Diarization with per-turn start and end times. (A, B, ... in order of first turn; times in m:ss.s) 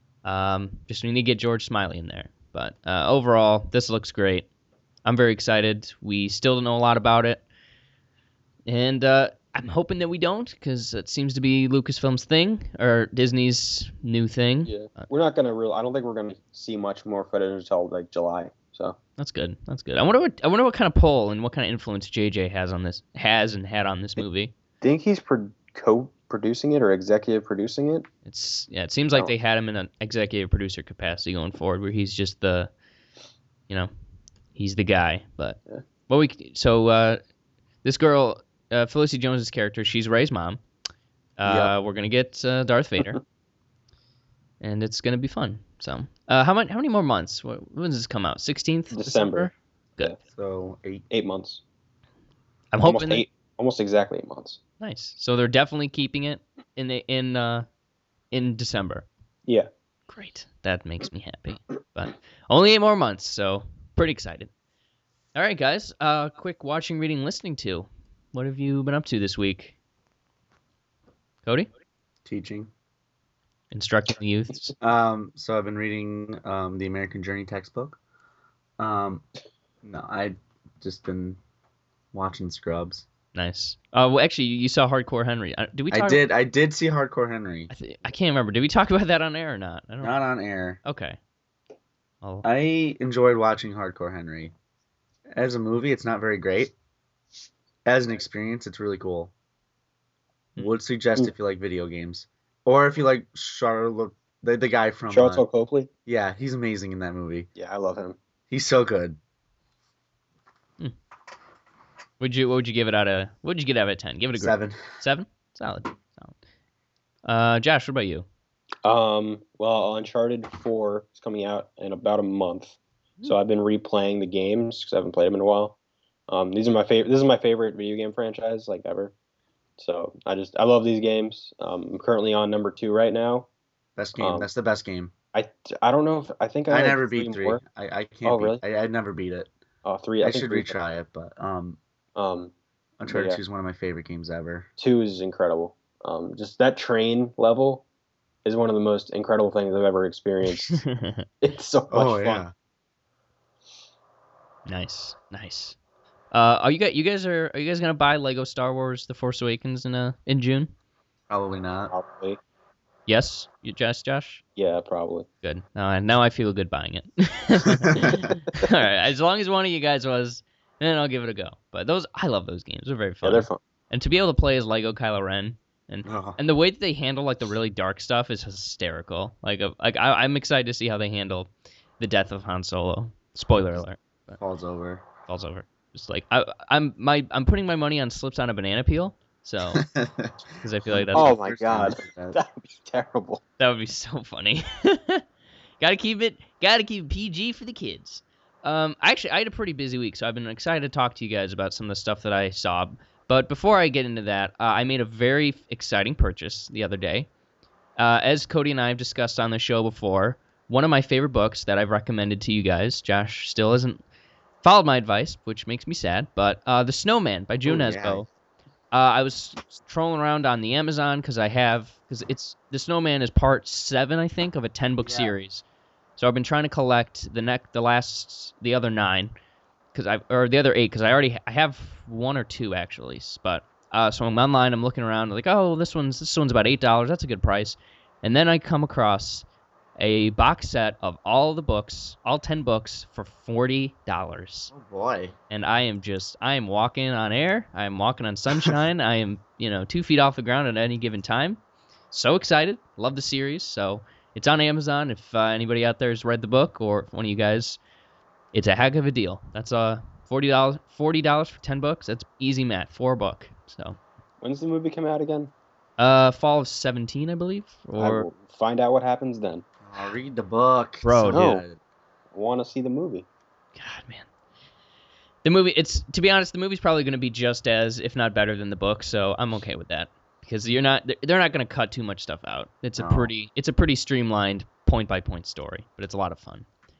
0:00.2-0:04.5 A
0:05.0-0:07.4 A
0:08.6-0:15.1 A
0:14.6-0:19.0 B
0:19.2-0:24.5 A
0:24.8-0:28.1 B
0:28.2-0:32.7 A
0:34.5-0:37.2 A
0:37.8-0:40.6 A
0:41.4-0:43.2 A
0:44.6-0:50.1 A
0:48.9-0:49.5 B
0:50.3-0:51.0 C
0:51.1-0:51.6 B
0:52.7-0:53.2 A
0:52.8-0:54.6 B
0:54.8-0:57.6 A
0:58.3-0:59.1 A
1:00.1-1:04.5 A
1:05.3-1:09.8 A
1:12.2-1:12.7 C
1:13.7-1:14.7 A
1:14.8-1:18.0 C
1:18.8-1:19.2 C
1:19.8-1:21.4 C
1:22.1-1:23.1 C
1:23.3-1:26.2 A
1:25.9-1:27.7 C
1:27.7-1:30.2 A
1:30.0-1:30.8 C
1:30.8-1:31.2 A
1:32.4-1:34.5 C
1:35.3-1:36.7 C
1:37.8-1:39.3 C
1:40.6-1:45.4 C
1:45.1-1:45.9 B
1:46.0-1:47.5 C
1:47.6-1:48.2 B
1:48.5-1:49.2 C
1:52.2-1:56.3 A
1:54.3-1:54.8 C
1:57.2-1:58.2 A
1:58.8-2:05.8 B
2:06.3-2:09.1 B
2:09.8-2:13.5 B
2:14.0-2:15.1 C
2:14.2-2:14.5 B
2:15.3-2:17.6 B
2:16.7-2:19.5 C
2:18.2-2:18.6 B
2:19.8-2:20.7 B
2:20.2-2:21.8 C
2:22.2-2:22.5 B
2:23.0-2:24.7 C
2:23.0-2:23.4 B
2:24.8-2:27.8 B
2:28.4-2:30.8 B
2:30.5-2:31.2 A
2:31.4-2:32.4 B
2:31.9-2:32.5 C
2:34.6-2:35.8 A
2:36.3-2:40.7 A
2:41.3-2:41.9 C
2:41.9-2:42.4 B
2:43.1-2:44.4 A
2:44.6-2:45.3 B
2:45.4-3:04.4 A
2:47.6-2:48.3 C
2:53.2-2:53.6 B
2:56.0-2:56.4 C
3:04.4-3:05.0 C
3:05.2-3:09.8 A
3:09.7-3:12.4 C
3:10.6-3:11.3 A
3:11.1-3:13.4 B
3:13.6-3:15.2 A
3:15.8-3:27.3 A
3:28.0-3:34.0 A
3:34.6-3:38.3 A
3:37.6-3:38.2 C
3:38.9-3:45.6 A
3:45.0-3:45.3 C
3:46.2-3:49.3 A
3:49.9-3:59.4 A
4:00.0-4:04.7 A
4:04.7-4:05.3 C
4:05.5-4:11.6 A
4:12.1-4:17.8 A
4:18.5-4:24.0 A
4:24.4-4:25.5 B
4:26.0-4:28.3 A
4:28.0-4:29.6 B
4:29.8-4:31.8 C
4:31.0-4:31.5 A
4:31.3-4:31.6 B
4:32.3-4:33.2 B
4:33.8-4:34.3 A
4:35.4-4:46.6 A
4:43.0-4:43.3 C